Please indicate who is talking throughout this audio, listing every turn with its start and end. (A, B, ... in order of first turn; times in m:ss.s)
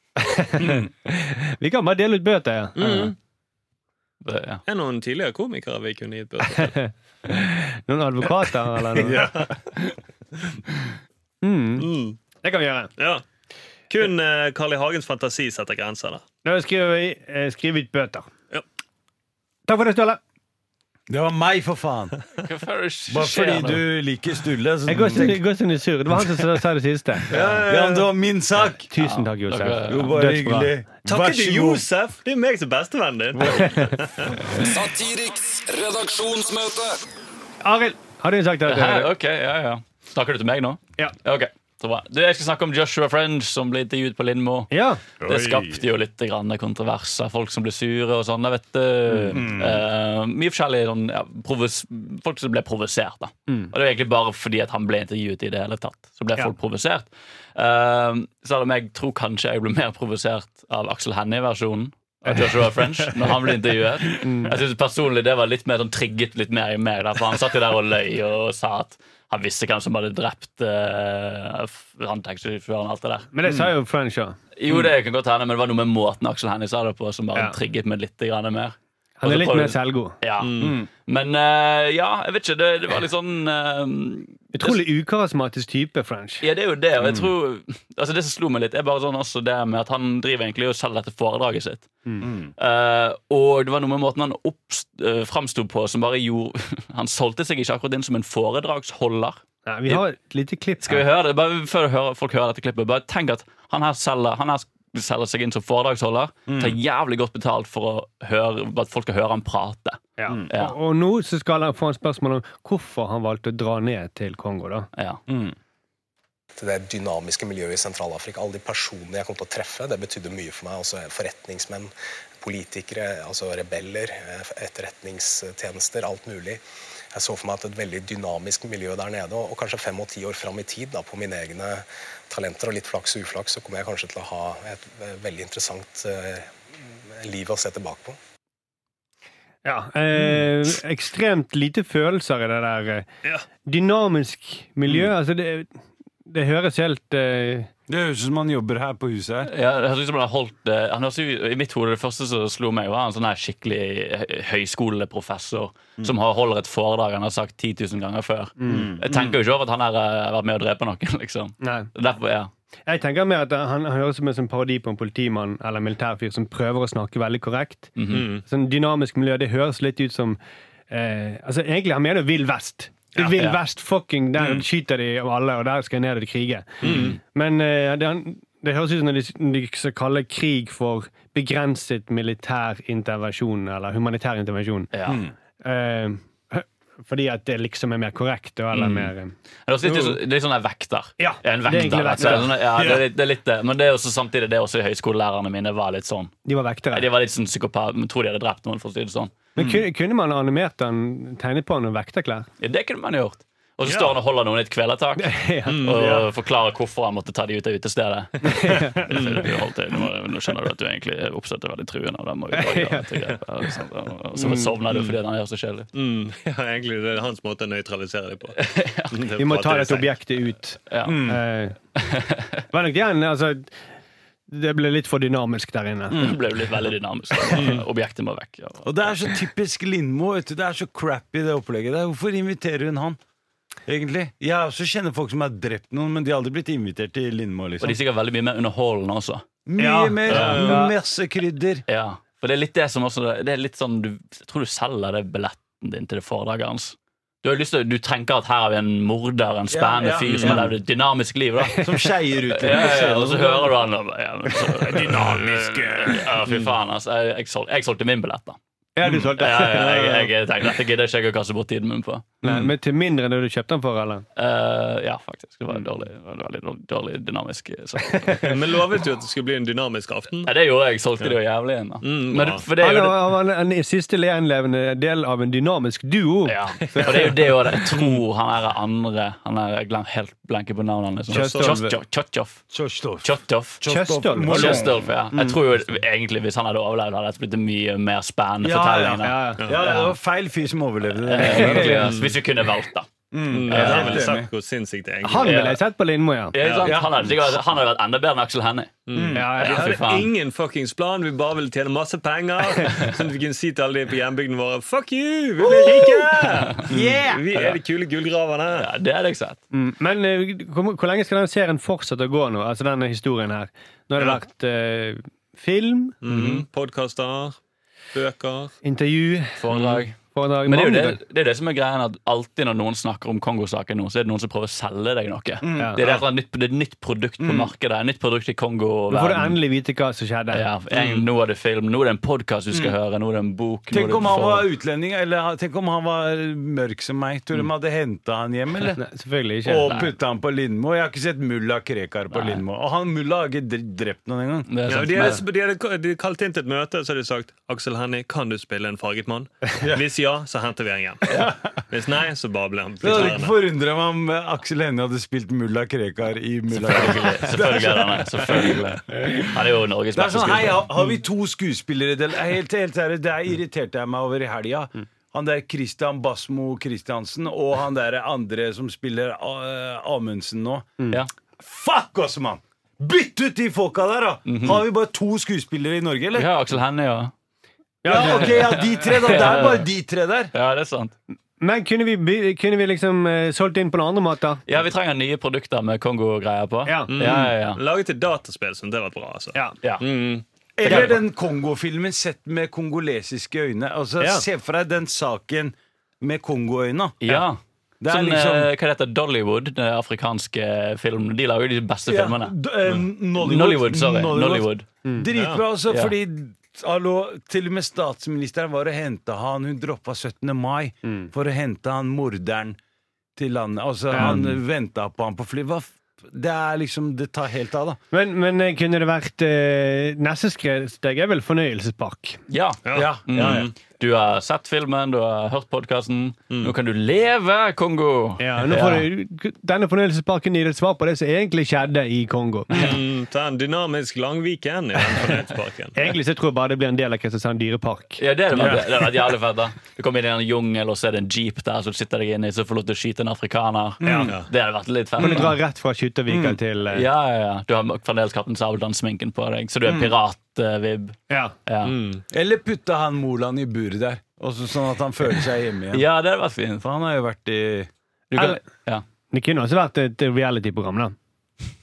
0:00.2-0:03.1 A
0:00.6-0:00.9 B
0:02.8-0:03.1 C
0:04.2-0:04.6 D
0:04.7-0:06.9 C
0:06.8-0:09.2 A
0:09.0-0:09.5 B
0:09.0-0:09.6 C
0:11.4-0:11.9 A
0:11.8-0:12.2 C
0:12.4-0:12.9 A
0:13.0-0:13.2 C
0:13.9-0:16.2 C
0:16.4-0:18.3 A
0:19.7-0:20.2 A
0:21.1-0:22.2 B
0:22.4-0:23.8 D
0:23.1-0:25.4 B
0:24.9-0:27.3 A
0:27.3-0:28.1 C
0:27.3-0:28.9 B
0:28.9-0:30.7 A
0:29.0-0:30.1 D
0:29.8-0:31.8 B
0:31.1-0:34.4 C
0:33.3-0:33.7 B
0:33.5-0:33.9 A
0:34.5-0:37.0 E
0:37.6-0:39.1 A
0:38.7-1:13.6 D
0:44.7-0:45.0 A
0:45.2-0:45.8 B
0:49.1-0:49.8 B
1:04.2-1:04.6 A
1:13.3-1:14.4 A
1:14.6-1:24.8 D
1:19.2-1:20.2 A
1:20.4-1:20.8 C
1:20.6-1:20.9 B
1:24.5-1:26.4 A
1:26.4-1:31.9 D
1:27.0-1:27.3 B
1:32.2-1:32.5 B
1:32.6-1:40.0 D
1:39.7-1:41.1 A
1:40.8-1:50.8 D
1:46.5-1:46.8 B
1:50.2-1:54.9 A
1:55.0-1:55.2 D
1:55.3-1:55.6 B
1:56.6-2:18.2 F
2:19.6-2:23.1 A
2:23.6-2:25.7 A
2:26.3-2:27.7 A
2:27.9-2:29.5 B
2:29.5-2:42.5 D
2:38.6-2:38.9 A
2:38.7-2:39.4 B
2:41.6-2:41.9 A
2:42.9-2:48.0 A
2:48.0-2:48.3 D
2:48.1-2:48.4 C
2:48.5-2:50.4 A
2:50.9-3:04.9 A
2:53.2-2:53.6 D
2:56.8-2:57.2 C
2:56.8-2:57.2 D
3:04.9-3:05.2 D
3:05.1-3:05.3 B
3:05.6-3:09.3 A
3:08.7-3:09.1 D
3:09.7-3:16.3 D
3:11.2-3:12.6 A
3:12.2-3:13.1 B
3:16.5-3:17.1 A
3:16.9-3:19.3 D
3:19.6-3:22.5 A
3:19.6-3:19.8 B
3:22.6-3:35.9 D
3:23.8-3:24.2 C
3:25.2-3:26.0 A
3:25.7-3:26.3 C
3:28.4-3:29.1 A
3:29.1-3:29.5 C
3:32.5-3:33.3 A
3:34.3-3:34.8 A
3:34.9-3:35.2 C
3:35.9-3:38.6 C
3:38.6-3:39.2 D
3:39.1-3:40.1 C
3:39.4-3:41.8 A
3:40.9-3:41.3 D
3:41.0-3:41.4 B
3:42.0-3:42.6 D
3:42.7-3:43.7 A
3:44.5-3:46.2 A
3:46.1-3:46.4 B
3:46.1-3:49.3 D
3:47.5-3:47.8 C
3:48.8-3:53.2 B
3:53.9-3:58.0 B
3:57.8-3:59.5 D
3:59.7-4:01.8 B
3:59.8-4:00.9 A
4:00.3-4:00.8 C
4:00.3-4:00.8 D
4:01.9-4:11.9 D
4:09.7-4:10.7 B
4:10.3-4:10.6 C
4:11.8-4:13.7 B
4:12.5-4:22.3 D
4:14.9-4:15.4 B
4:14.9-4:16.3 A
4:16.4-4:16.7 C
4:19.0-4:20.1 A
4:19.6-4:20.3 C
4:22.4-4:24.2 A
4:24.4-4:28.8 D
4:28.3-4:30.5 C
4:30.4-4:33.3 D
4:32.0-4:32.6 C
4:32.8-4:37.4 A
4:36.5-4:42.7 D
4:37.1-4:37.3 C
4:37.9-4:38.2 C
4:41.3-4:42.0 A
4:41.3-4:41.8 C
4:42.7-4:45.1 B
4:43.2-4:43.8 D
4:43.8-4:45.6 A
4:44.4-4:49.4 D
4:48.6-4:52.2 B
4:49.2-4:50.1 A
4:51.2-4:53.1 D
4:51.4-4:52.2 A
4:51.9-4:52.4 C
4:53.3-4:54.5 B
4:53.5-4:55.8 C
4:53.7-4:54.3 D
4:55.2-4:56.6 A
4:55.4-4:55.8 D
4:56.5-4:59.0 D
4:56.6-4:57.0 C
4:56.6-4:57.6 B
4:59.1-5:08.9 C
4:59.1-4:59.5 B
4:59.4-4:59.9 A
4:59.6-5:00.3 D
5:05.7-5:07.5 B
5:08.7-5:09.6 D
5:09.7-5:16.2 A
5:16.2-5:17.6 C
5:16.3-5:16.6 B
5:18.1-5:18.8 C
5:18.8-5:19.6 A
5:19.6-5:29.6 D
5:19.7-5:20.0 C
5:20.3-5:21.2 A
5:25.6-5:26.3 B
5:27.4-5:27.7 B
5:29.1-5:30.6 A
5:30.5-5:34.7 D
5:30.9-5:31.2 B
5:32.7-5:33.0 B
5:33.9-5:39.0 B
5:39.0-5:39.9 A
5:39.6-5:44.8 B
5:39.9-5:40.1 D
5:42.3-5:42.6 D
5:44.7-5:45.4 D
5:44.9-5:51.3 C
5:51.3-5:51.6 B
5:51.9-5:53.6 C
5:53.0-5:59.6 B
5:56.7-6:00.9 D
6:00.1-6:11.0 B
6:11.6-6:16.5 B
6:14.5-6:14.8 D
6:16.4-6:17.3 D
6:18.0-6:19.4 A
6:18.0-6:20.5 B
6:18.1-6:19.9 D
6:20.5-6:21.1 D
6:21.6-6:24.6 A
6:24.7-6:27.8 D
6:26.9-6:27.1 A
6:27.1-6:31.2 C
6:30.8-6:37.3 B
6:30.8-6:31.2 D
6:34.2-6:34.4 A
6:37.2-6:44.9 D
6:38.0-6:38.7 B
6:42.1-6:52.8 B
6:45.3-6:45.6 C
6:45.9-6:46.1 D
6:51.0-6:51.3 A
6:53.4-6:58.0 B
6:54.1-6:54.4 A
6:54.2-6:54.6 D
6:58.1-7:02.4 A
7:02.5-7:09.1 D
7:02.8-7:03.7 C
7:02.9-7:03.7 B
7:08.4-7:12.9 A
7:12.7-7:16.0 C
7:16.0-7:18.2 A
7:18.2-7:25.6 D
7:18.5-7:19.3 B
7:24.0-7:24.4 A
7:24.1-7:24.5 C
7:25.2-7:27.1 A
7:26.3-7:26.6 B
7:26.9-7:32.0 D
7:29.8-7:30.1 B
7:31.3-7:31.6 A
7:31.8-7:32.2 C
7:32.3-7:36.1 B
7:35.9-7:36.9 D
7:36.8-7:37.9 B
7:38.3-7:39.0 D
7:38.3-7:38.6 A
7:39.3-7:41.2 A